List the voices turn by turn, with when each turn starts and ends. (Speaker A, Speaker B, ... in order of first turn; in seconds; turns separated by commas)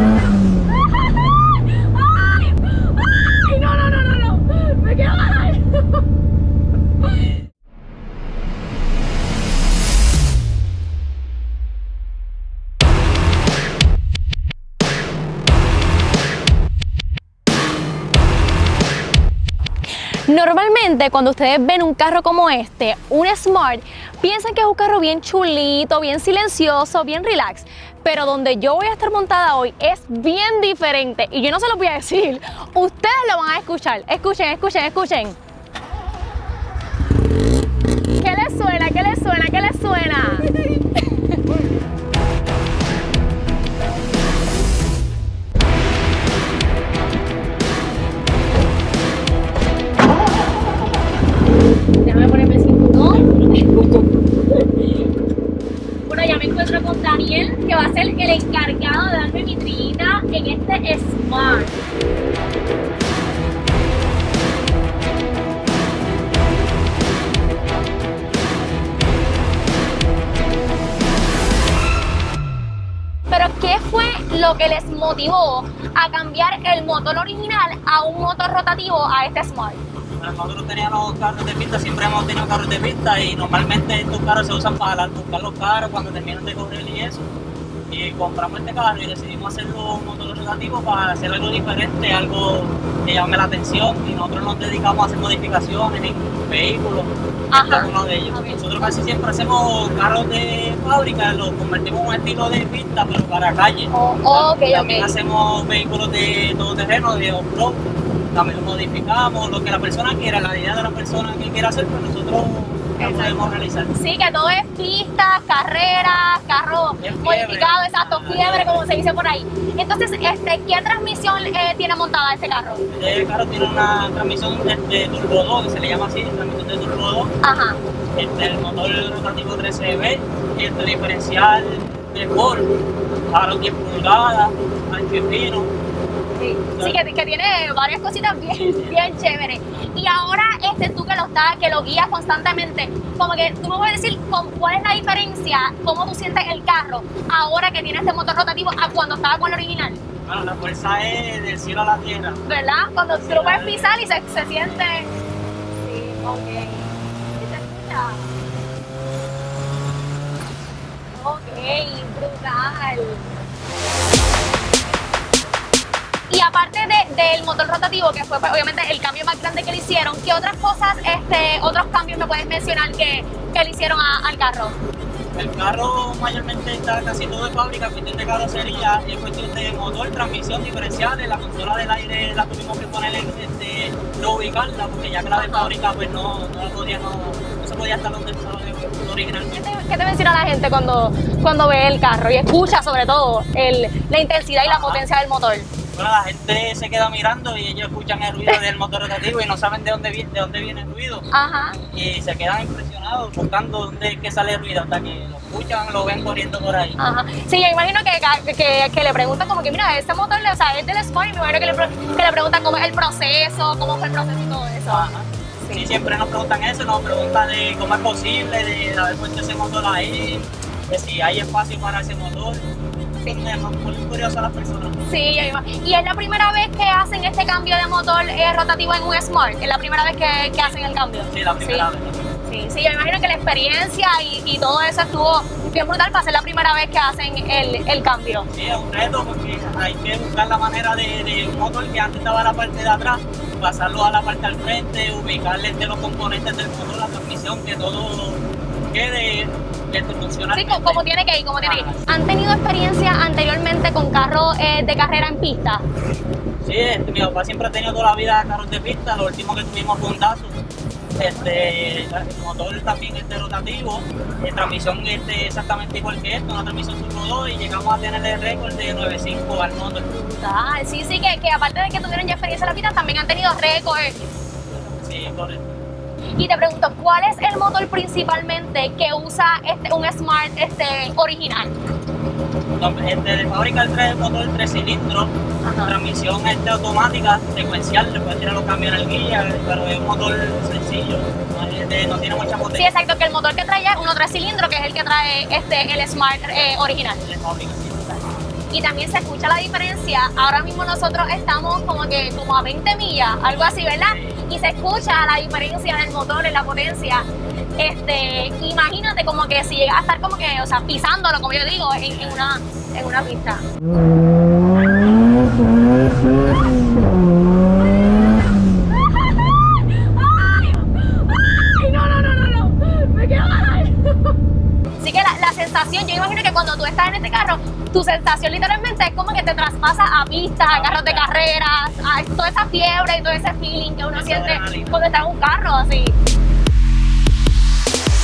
Speaker A: 1.5-5.9, Speaker A: 20.3-35.4, Speaker A: 38.2-40.5, Speaker A: 52.0-54.8, Speaker A: 56.1-61.8, Speaker A: 73.3-79.8, Speaker B: 80.2-87.3, Speaker B: 87.9-113.9, Speaker A: 97.5-98.9, Speaker A: 103.9-105.1, Speaker A: 113.0-122.8, Speaker B: 117.0-118.8, Speaker B: 122.9-127.3, Speaker A: 127.4-127.8, Speaker B: 128.1-132.7, Speaker B: 133.3-135.7, Speaker A: 136.3-150.0, Speaker B: 136.7-137.0, Speaker B: 138.5-139.2, Speaker B: 150.3-152.4, Speaker A: 152.4-155.1, Speaker B: 153.1-154.0, Speaker A: 155.8-158.3, Speaker A: 161.1-163.3, Speaker A: 166.3-174.8, Speaker B: 175.3-189.7, Speaker A: 185.4-185.7, Speaker A: 189.5-195.7, Speaker B: 194.6-195.0, Speaker B: 195.9-201.3, Speaker A: 201.3-201.8, Speaker B: 201.8-207.0, Speaker A: 207.0-215.1, Speaker B: 214.8-222.6, Speaker A: 215.6-215.9, Speaker B: 223.2-225.0, Speaker A: 225.1-231.9, Speaker B: 231.3-232.2, Speaker A: 232.4-238.5, Speaker B: 238.5-251.0, Speaker A: 250.5-255.8, Speaker B: 251.6-252.0, Speaker B: 256.6-260.6, Speaker B: 261.2-270.1, Speaker A: 270.0-274.2, Speaker B: 275.0-275.7, Speaker A: 276.4-281.7, Speaker B: 282.8-292.9, Speaker A: 285.6-285.9, Speaker A: 292.7-297.2, Speaker B: 297.2-298.2, Speaker A: 298.7-307.3, Speaker B: 304.0-304.4, Speaker A: 307.8-313.6, Speaker B: 312.1-312.5, Speaker A: 319.3-324.3, Speaker A: 325.0-336.1, Speaker B: 330.7-331.3, Speaker B: 334.1-335.0